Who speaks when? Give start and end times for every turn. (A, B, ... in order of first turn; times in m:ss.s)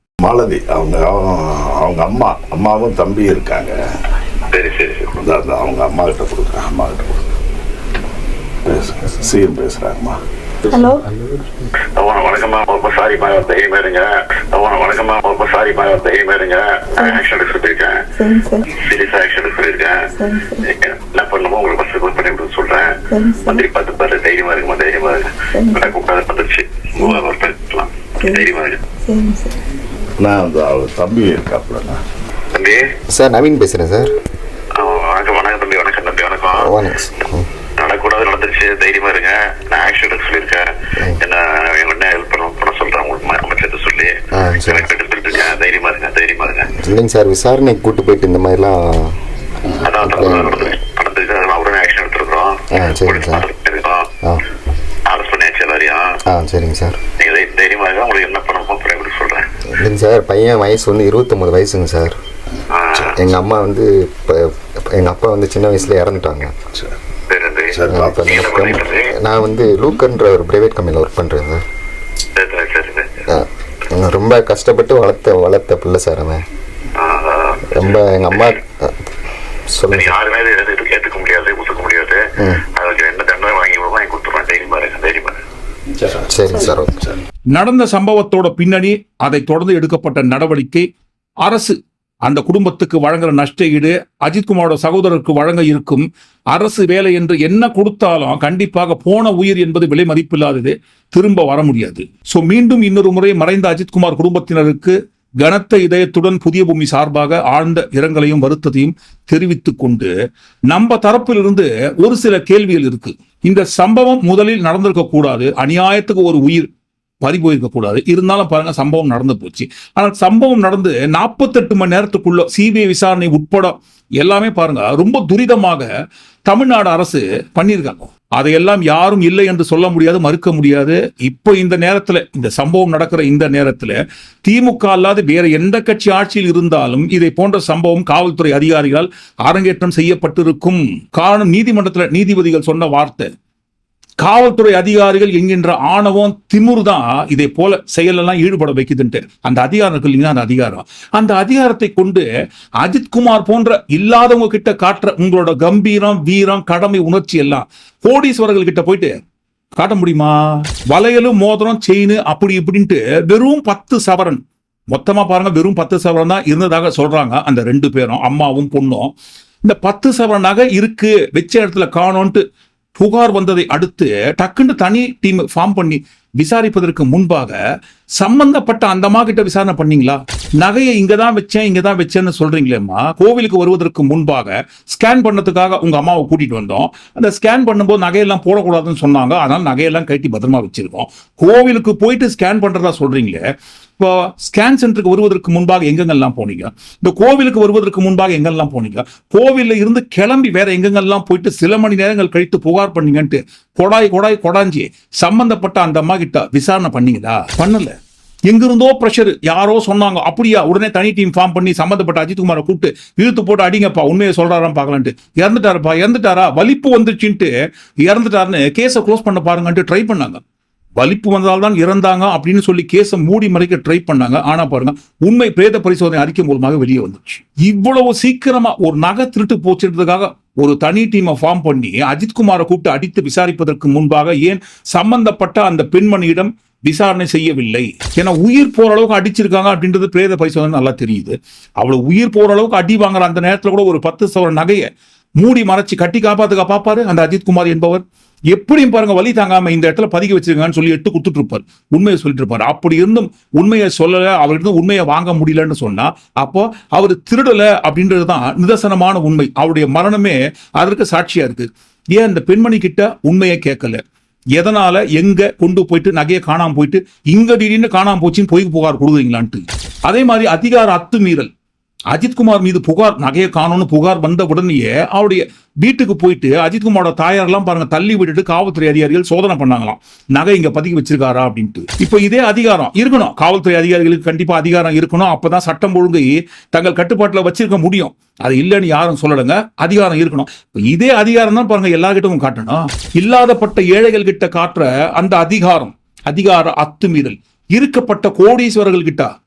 0:00.2-0:03.7 A
0:04.5-0:05.1 B
0:05.2-0:07.3 A
0:08.6-0:10.2 A
0:10.7-0:11.1 C
0:12.0-0:18.0 B
0:17.0-0:17.2 C
0:18.2-0:18.7 C
0:18.7-0:20.0 B
0:20.1-0:20.6 C
0:20.7-0:28.8 B
0:23.1-0:23.6 C
0:25.5-0:25.9 C
0:27.0-0:27.2 C
0:28.2-0:28.5 C
0:29.0-0:29.6 C
0:30.2-0:32.0 A
0:32.5-0:32.8 B
0:33.1-0:34.1 D
0:34.8-0:36.7 B
0:36.6-0:37.5 D
0:37.8-0:40.6 B
0:41.2-0:44.1 B
0:44.3-0:44.9 D
0:44.6-0:46.7 B
0:46.7-0:49.2 D
0:49.8-0:54.1 B
0:49.9-0:50.8 D
0:52.7-0:53.4 D
0:55.1-0:56.2 B
0:56.3-0:57.0 D
0:57.2-0:59.5 B
0:59.7-1:02.2 D
1:02.7-1:03.2 B
1:03.1-1:06.5 D
1:07.3-1:09.1 B
1:07.7-1:08.3 A
1:07.9-1:11.6 D
1:12.4-1:13.1 B
1:13.3-1:16.4 D
1:16.9-1:18.5 B
1:17.7-1:19.0 D
1:19.7-1:20.1 D
1:19.9-1:22.2 B
1:22.8-1:25.4 B
1:26.0-1:27.1 A
1:26.3-1:26.9 D
1:27.5-1:30.9 E
1:31.4-1:50.1 E
1:50.7-1:56.7 E
1:57.2-2:05.9 E
2:06.5-2:13.9 E
2:14.4-2:23.3 E
2:24.2-2:32.2 E
2:32.8-2:39.2 E
2:39.8-2:52.4 E
2:53.0-2:57.5 E
2:58.2-3:13.4 E
3:14.0-3:27.9 E
3:28.5-3:40.4 E
3:41.0-4:04.9 E
4:05.4-4:24.0 E
4:24.6-4:31.5 E
4:32.1-4:59.3 E